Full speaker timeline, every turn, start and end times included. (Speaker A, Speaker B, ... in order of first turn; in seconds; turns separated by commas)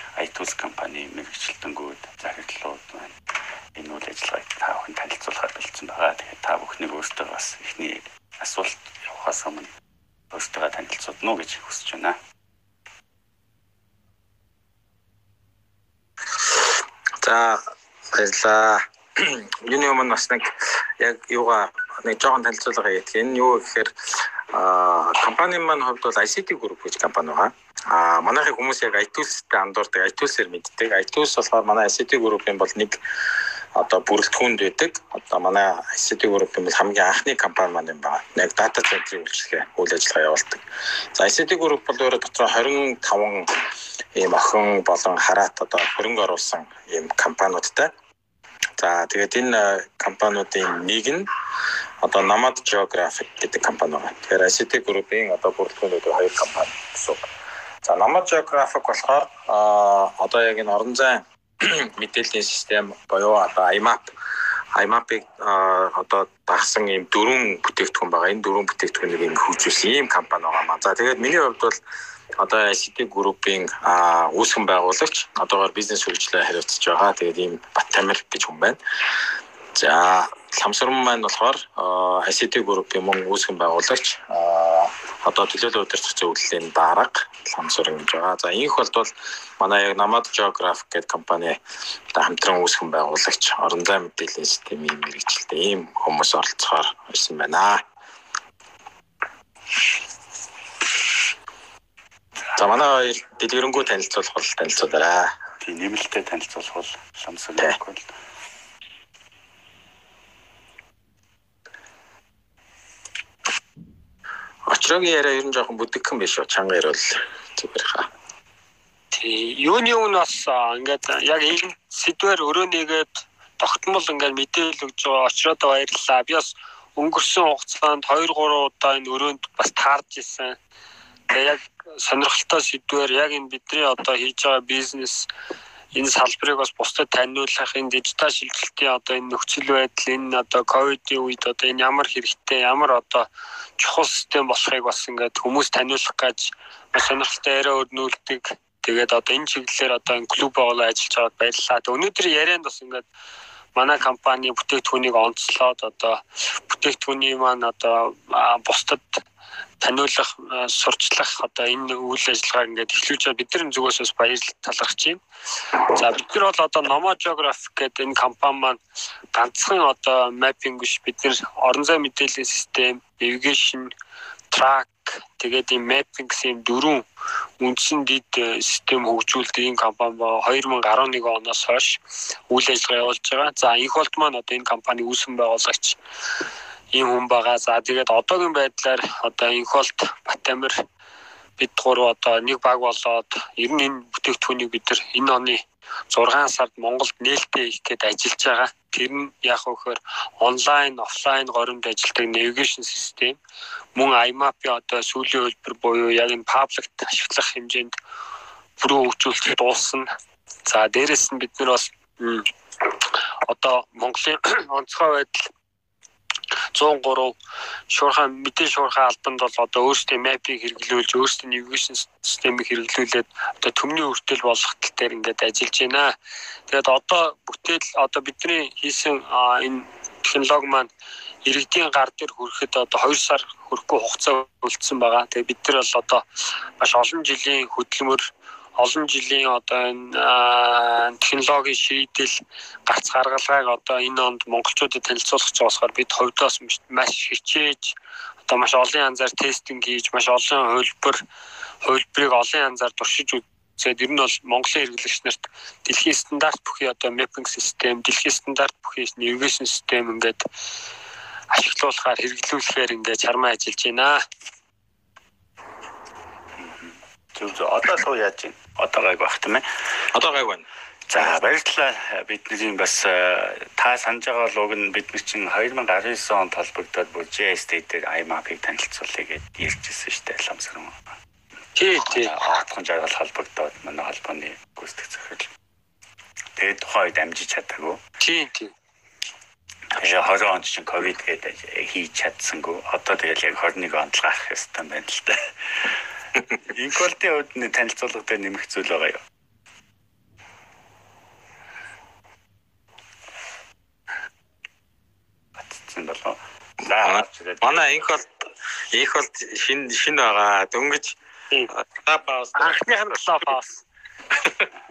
Speaker A: 0.1-3.1, Speaker A: 3.8-9.7, Speaker A: 10.3-12.2, Speaker B: 16.4-23.9, Speaker B: 24.5-33.0, Speaker B: 33.7-40.6, Speaker B: 41.1-43.5, Speaker B: 44.1-47.9, Speaker B: 48.8-51.3, Speaker B: 52.0-57.2, Speaker B: 57.8-64.1, Speaker B: 64.8-71.8, Speaker B: 72.4-78.8, Speaker B: 79.7-91.6, Speaker B: 92.1-97.8, Speaker B: 102.5-105.3, Speaker A: 105.6-108.1, Speaker B: 114.7-118.1, Speaker C: 119.1-130.6, Speaker C: 131.3-135.3, Speaker C: 135.9-153.1, Speaker C: 153.8-159.2, Speaker C: 159.8-165.2, Speaker C: 165.9-168.8, Speaker C: 169.3-173.9, Speaker C: 174.5-177.0, Speaker C: 177.6-186.0, Speaker C: 186.9-190.8, Speaker C: 191.6-203.4, Speaker C: 203.9-207.9, Speaker C: 208.8-210.1, Speaker C: 210.7-212.5, Speaker C: 213.4-215.5, Speaker C: 216.7-217.3, Speaker C: 217.9-226.1, Speaker C: 226.7-230.9, Speaker C: 231.4-236.2, Speaker C: 236.8-247.9, Speaker C: 248.4-251.2, Speaker C: 251.8-260.4, Speaker C: 261.5-264.2, Speaker A: 266.6-269.6, Speaker B: 270.1-271.4, Speaker A: 271.1-281.1, Speaker C: 281.8-282.3, Speaker A: 282.0-285.5, Speaker A: 286.6-288.0, Speaker C: 288.2-288.7, Speaker A: 290.0-295.9, Speaker A: 296.5-299.2, Speaker A: 305.6-308.0, Speaker B: 307.0-308.3, Speaker B: 308.9-311.1, Speaker B: 311.9-312.8, Speaker C: 312.6-313.8